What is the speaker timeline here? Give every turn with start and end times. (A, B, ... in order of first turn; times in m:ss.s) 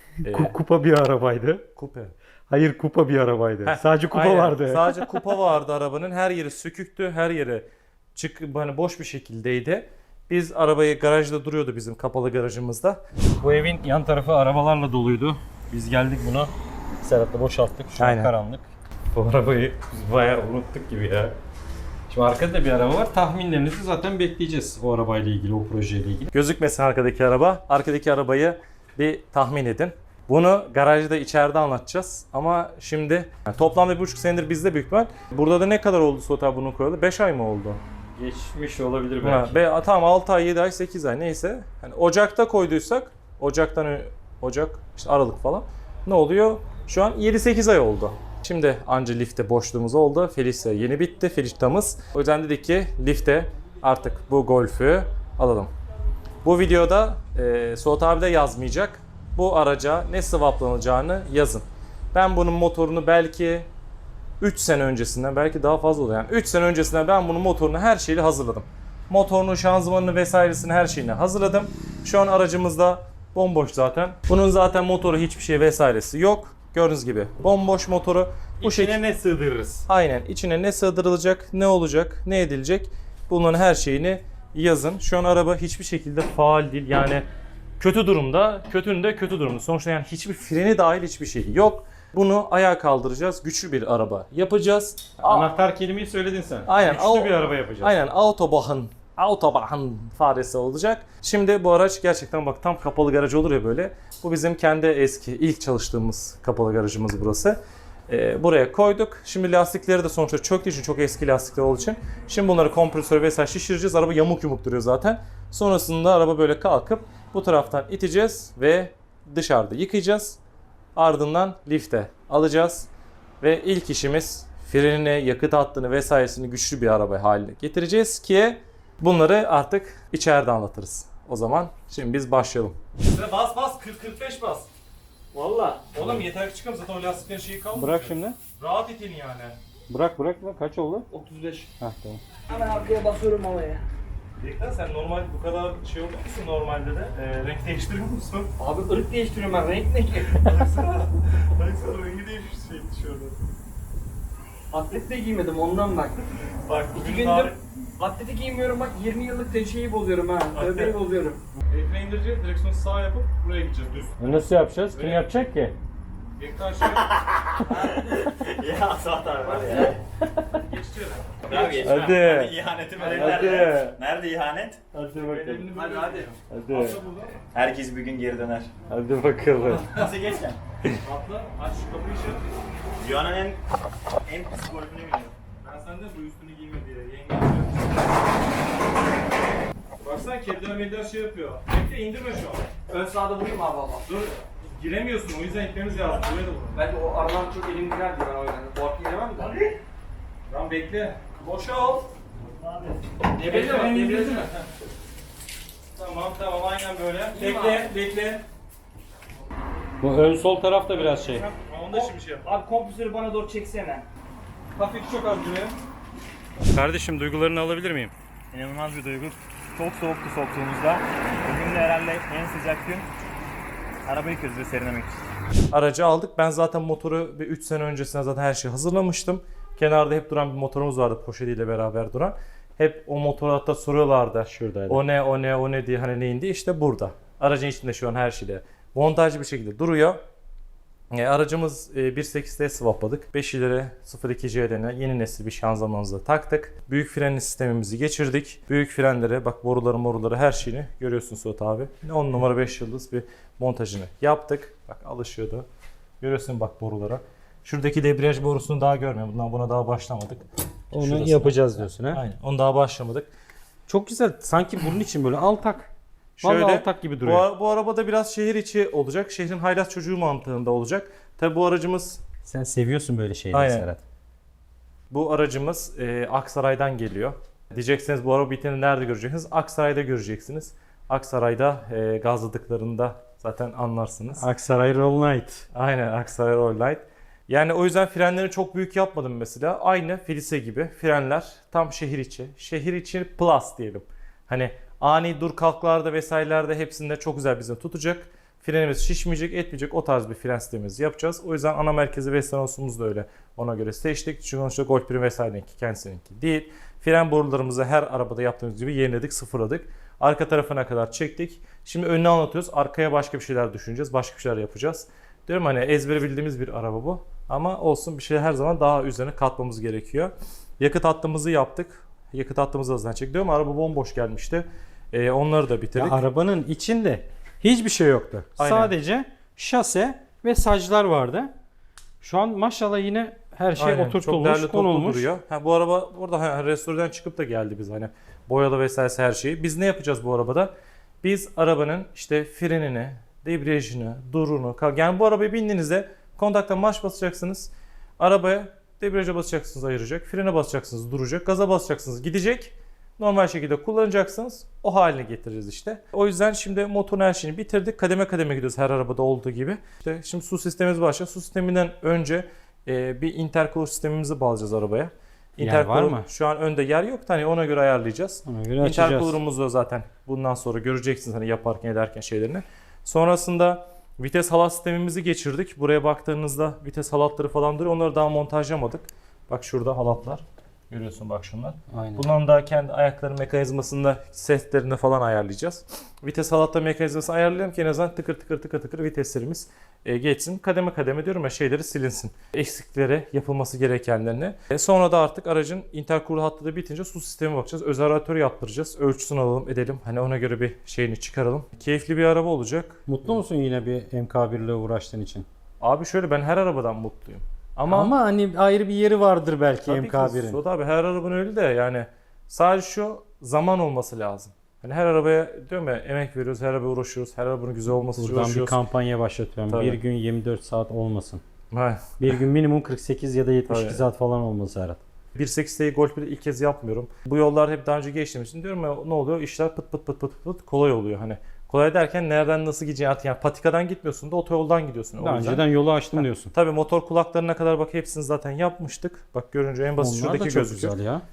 0:00.2-0:00.5 A
0:00.2-0:01.6 B
0:01.8-0:02.1 A
0:02.5-0:05.1 B
0:03.6-0:13.0 A
0:13.4-0:21.3 B
0:18.0-0:18.3 A
0:22.1-0:26.3 B
0:26.3-0:37.8 A
0:38.2-0:39.6 B
0:39.2-0:55.7 A
0:56.4-1:03.7 A
1:04.4-1:19.0 A
1:18.6-1:19.9 B
1:19.9-1:27.2 A
1:27.8-1:35.5 A
1:35.2-1:38.0 B
1:36.7-2:00.4 A
2:01.0-2:02.9 A
2:03.4-2:14.7 A
2:15.3-2:19.6 A
2:17.8-2:18.4 B
2:19.9-2:21.1 B
2:21.2-2:21.7 C
2:21.8-2:22.2 B
2:22.5-2:23.8 C
2:24.4-2:28.5 A
2:28.6-2:30.3 B
2:28.7-2:30.1 C
2:30.1-2:33.4 A
2:34.7-2:36.1 B
2:35.0-2:35.9 C
2:36.5-2:37.6 A
2:37.0-2:37.5 B
2:38.0-2:41.4 B
2:40.5-2:41.0 A
2:41.7-2:45.4 A
2:44.2-2:45.8 B
2:46.4-2:48.5 A
2:48.2-2:50.0 D
2:49.4-2:49.9 A
2:50.5-2:52.2 A
2:51.4-2:55.7 D
2:51.5-2:54.0 B
2:53.0-2:53.7 A
2:55.0-2:55.9 B
2:55.2-2:57.4 A
2:56.5-2:57.0 B
2:57.5-2:58.7 D
2:58.9-2:59.8 B
2:59.6-3:00.2 A
2:59.9-3:00.6 D
3:01.0-3:02.5 A
3:03.0-3:03.6 D
3:04.2-3:05.3 D
3:05.6-3:08.1 A
3:10.0-3:12.7 A
3:12.9-3:14.0 C
3:14.0-3:16.8 A
3:16.8-3:19.5 C
3:17.0-3:17.6 B
3:20.5-3:22.1 A
3:23.4-3:24.6 A
3:23.4-3:24.5 B
3:26.0-3:28.4 A
3:27.3-3:27.9 B
3:30.0-3:31.4 B
3:31.2-3:32.5 A
3:32.5-3:34.0 B
3:32.5-3:34.0 C
3:34.8-3:35.7 B
3:36.7-3:38.1 A
3:38.5-3:43.1 D
3:44.1-3:45.2 D
3:45.7-4:00.2 A
3:54.4-3:55.0 B
4:01.1-4:15.6 A
4:16.2-4:23.3 A
4:20.9-4:22.2 B
4:23.9-4:25.9 B
4:26.4-4:32.2 A
4:26.4-4:27.4 B
4:32.4-4:34.0 B
4:33.5-4:33.9 A
4:35.1-4:44.4 A
4:44.3-4:45.6 B
4:45.7-5:26.2 A
5:25.9-5:31.5 B
5:28.6-5:28.9 A
5:32.2-5:35.3 B
5:33.8-5:40.7 A
5:41.2-6:43.0 A
6:05.6-6:06.3 B
6:08.4-6:09.4 B
6:21.9-6:22.2 B
6:43.1-6:45.4 B
6:45.8-6:48.2 A
6:47.9-6:50.6 B
6:49.9-6:58.8 A
6:58.2-7:01.4 B
6:59.7-7:00.0 A
7:01.7-7:02.4 A
7:02.2-7:05.0 B
7:03.7-7:04.0 A
7:05.3-7:20.9 A
7:15.2-7:16.5 B
7:20.0-7:21.2 B